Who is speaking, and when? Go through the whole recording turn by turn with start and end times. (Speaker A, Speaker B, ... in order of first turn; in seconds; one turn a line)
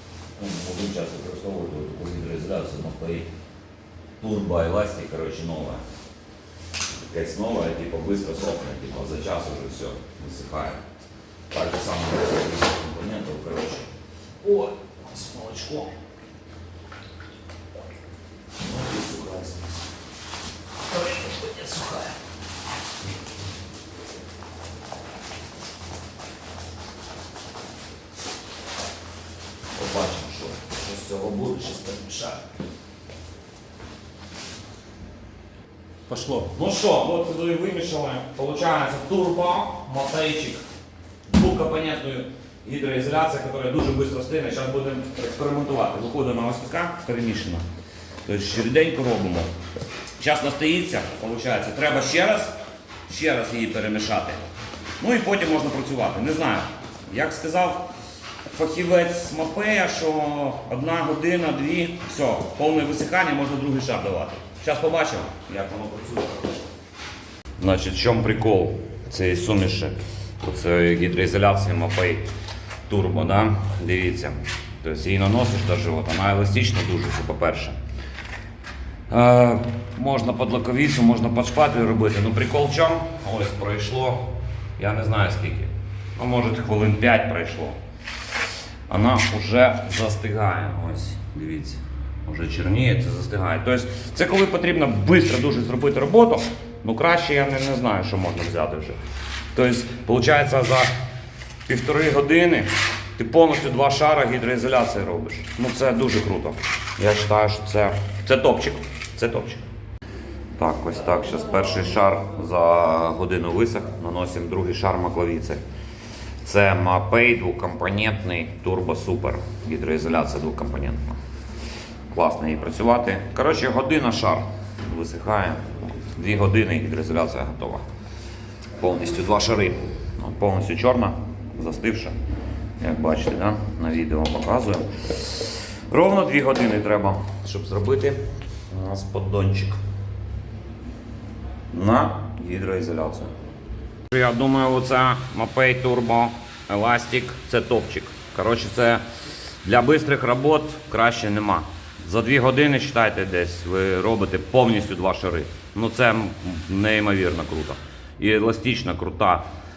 Speaker A: 0.4-3.3
Speaker A: 4.2-5.8
Speaker A: 7.0-10.8
Speaker A: 11.5-13.9
Speaker A: 14.4-15.9
Speaker A: 18.6-19.8
Speaker A: 21.0-22.1
Speaker A: 29.8-32.4
Speaker A: 36.1-40.6
Speaker A: 41.3-47.6
Speaker A: 48.2-49.5
Speaker A: 50.2-52.5
Speaker A: 53.1-54.5
Speaker A: 55.0-57.9
Speaker A: 58.5-66.5
Speaker A: 67.6-72.2
Speaker A: 72.9-77.8
Speaker A: 79.1-87.8
Speaker A: 88.9-99.0
Speaker A: 99.5-100.9
Speaker A: 101.7-109.6
Speaker A: 110.6-115.6
Speaker A: 116.4-121.2
Speaker A: 122.1-127.8
Speaker A: 128.8-132.2
Speaker A: 132.8-139.8
Speaker A: 141.7-143.3
Speaker A: 144.1-149.0
Speaker A: 149.6-159.4